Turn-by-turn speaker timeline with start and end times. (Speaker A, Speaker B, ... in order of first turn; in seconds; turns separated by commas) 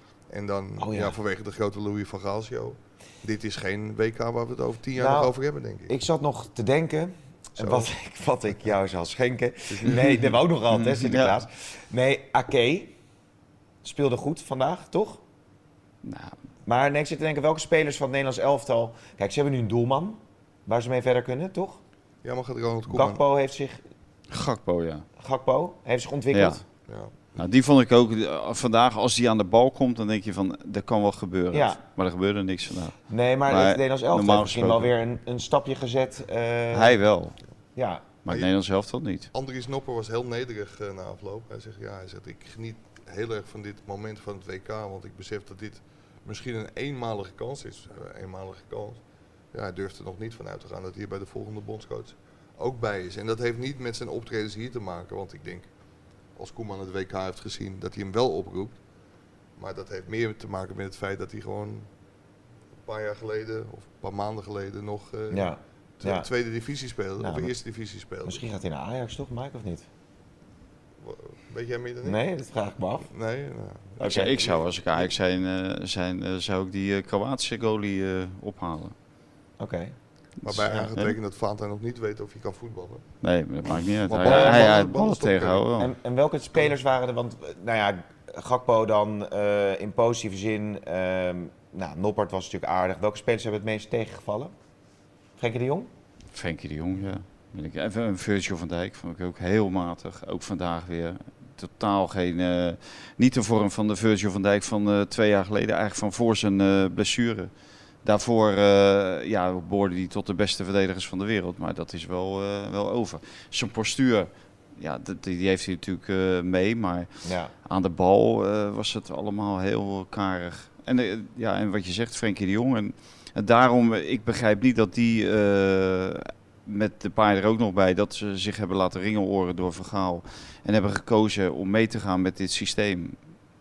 Speaker A: 0.3-5.9, Speaker B: 0.8-1.2, Speaker B: 5.0-5.4, Speaker B: 5.9-12.9, Speaker A: 7.6-7.9, Speaker A: 9.7-10.2, Speaker C: 10.7-11.4, Speaker B: 13.8-15.2, Speaker C: 16.0-16.4, Speaker B: 16.7-21.8, Speaker A: 22.2-23.2, Speaker B: 22.9-23.8, Speaker C: 24.3-25.1, Speaker B: 25.2-26.6, Speaker C: 26.3-26.6, Speaker A: 26.9-27.1, Speaker C: 27.4-33.0, Speaker B: 31.5-31.8, Speaker B: 33.1-37.0, Speaker C: 33.5-34.9, Speaker C: 36.7-37.4, Speaker B: 37.8-38.0, Speaker C: 38.2-39.3, Speaker A: 39.3-49.0, Speaker A: 49.5-55.7, Speaker A: 56.4-58.8, Speaker A: 59.6-61.9, Speaker A: 62.9-68.4, Speaker B: 65.3-66.3, Speaker B: 67.2-67.5, Speaker B: 68.2-69.9, Speaker A: 71.0-72.2, Speaker B: 72.0-73.1, Speaker A: 73.1-75.1, Speaker C: 74.0-78.9, Speaker B: 74.0-74.4, Speaker B: 79.6-80.0, Speaker C: 80.4-81.2, Speaker A: 80.5-83.1, Speaker C: 83.2-85.9, Speaker A: 84.1-85.7, Speaker B: 84.2-84.7, Speaker B: 85.8-94.5, Speaker B: 95.4-95.9, Speaker C: 96.3-107.5, Speaker C: 108.0-117.1, Speaker B: 117.2-117.5, Speaker C: 117.7-133.2